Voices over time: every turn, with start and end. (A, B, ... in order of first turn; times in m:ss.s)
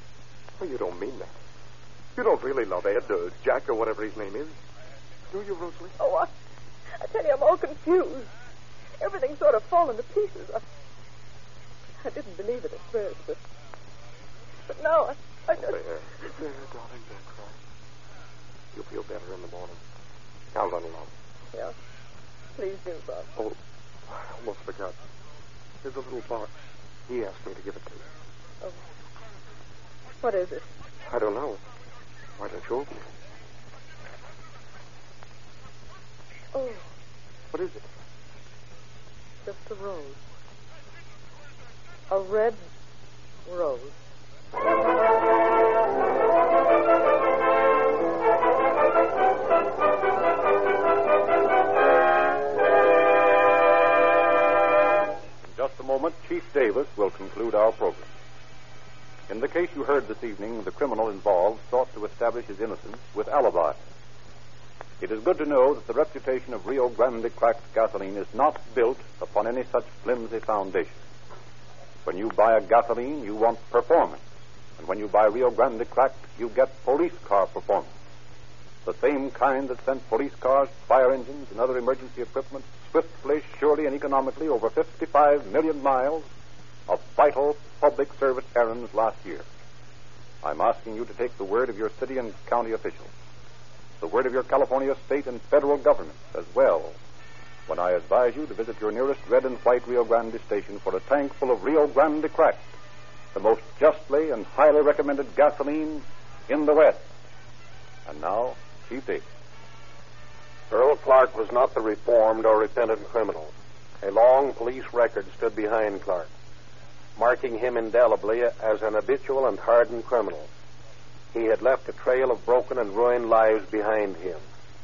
0:00.6-0:01.3 A
0:02.2-0:04.6 A
0:05.3-0:06.0 A
0:06.0-0:06.3 B
0:07.0-0:08.3 B
0:09.0-0:10.6 B
0:12.0-0:13.4 B
0:14.7-0:15.8 B
0:15.5-0:17.6 A
0:18.7-0:19.8 A
0:20.5-0:21.1 A
0:22.6-0:23.3 B
0:24.1-0:25.0 A
0:25.8-0:28.1 A
0:30.2-0:30.7 B
0:31.1-0:31.6 A
0:32.4-0:33.0 A
0:36.5-0:36.8 B
0:37.5-0:37.9 A
0:39.4-0:40.2 B
0:42.1-0:42.6 B
0:43.5-0:43.9 B
0:55.4-0:58.1 C
0:59.3-1:03.8 C
1:05.0-1:11.0 C
1:12.0-1:14.2 C
1:14.8-1:17.9 C
1:18.8-1:26.3 C
1:26.9-1:29.4 C
1:30.4-1:33.1 C
1:34.0-1:37.0 C
1:37.7-1:42.7 C
1:43.3-1:47.1 C
1:48.1-1:49.2 C
1:50.7-1:53.5 D
1:54.0-1:56.3 D
1:57.2-2:00.5 D
2:01.3-2:04.4 D